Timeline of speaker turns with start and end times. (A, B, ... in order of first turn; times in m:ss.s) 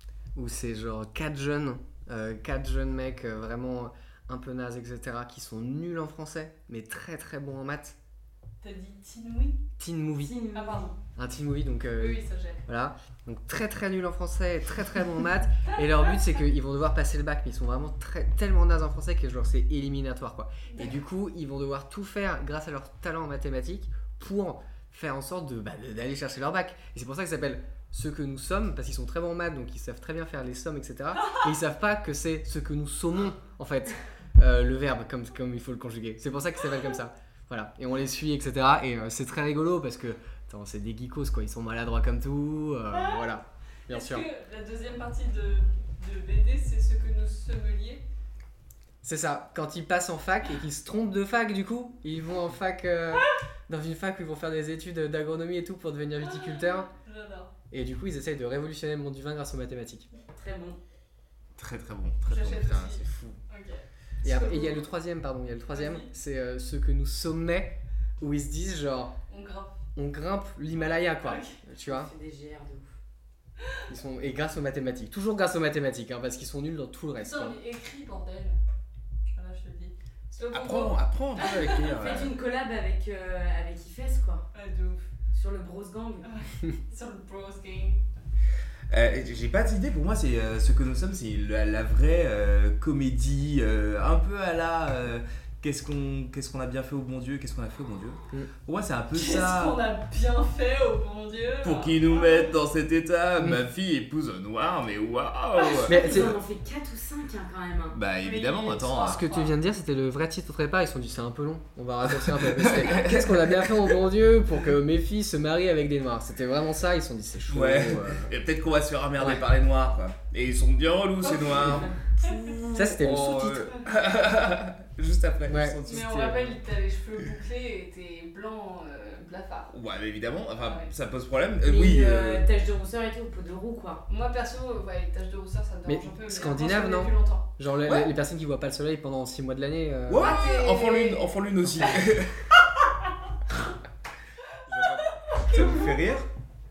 0:00.3-0:08.0 A
0:08.6-0:09.6 B
0:09.8-0:10.4 A
0:10.2-0:10.9 C
0:10.5-0:11.0 B
0:11.1-0:44.2 A
0:12.0-0:12.6 B
0:20.7-0:21.0 B
0:42.9-0:43.3 B
0:43.9-0:48.0 B
0:49.0-0:56.9 A
0:56.2-0:57.5 B
0:57.7-1:00.1 A
1:00.3-1:00.8 C
1:01.6-1:03.4 D
1:02.3-1:04.9 B
1:04.2-1:09.1 A
1:05.7-1:06.1 B
1:09.3-1:09.7 B
1:10.0-1:12.1 A
1:11.2-1:11.6 B
1:11.8-1:12.9 C
1:13.6-1:13.8 B
1:13.9-1:17.5 A
1:17.2-1:18.5 B
1:19.3-1:22.1 B
1:20.5-1:22.3 D
1:21.7-1:24.5 C
1:24.5-1:25.1 B
1:25.3-1:26.3 C
1:26.2-1:28.0 B
1:28.9-1:39.8 D
1:39.1-1:42.5 B
1:41.6-1:46.0 D
1:45.9-1:46.4 A
1:45.9-1:48.0 C
1:47.9-1:49.2 D
1:48.2-1:49.6 B
1:49.1-1:58.3 A
1:52.1-1:54.0 D
1:57.5-2:01.9 D
1:59.2-1:59.4 A
2:01.2-2:02.5 B
2:02.2-2:03.7 A
2:02.7-2:06.4 D
2:05.5-2:06.5 A
2:05.8-2:09.7 B
2:09.7-2:12.4 D
2:10.6-2:10.9 B
2:11.6-2:14.0 C
2:14.1-2:17.5 B
2:15.9-2:20.3 A
2:17.8-2:18.1 D
2:20.1-2:22.6 D
2:20.1-2:22.0 B
2:24.7-2:26.3 D
2:24.8-2:25.9 B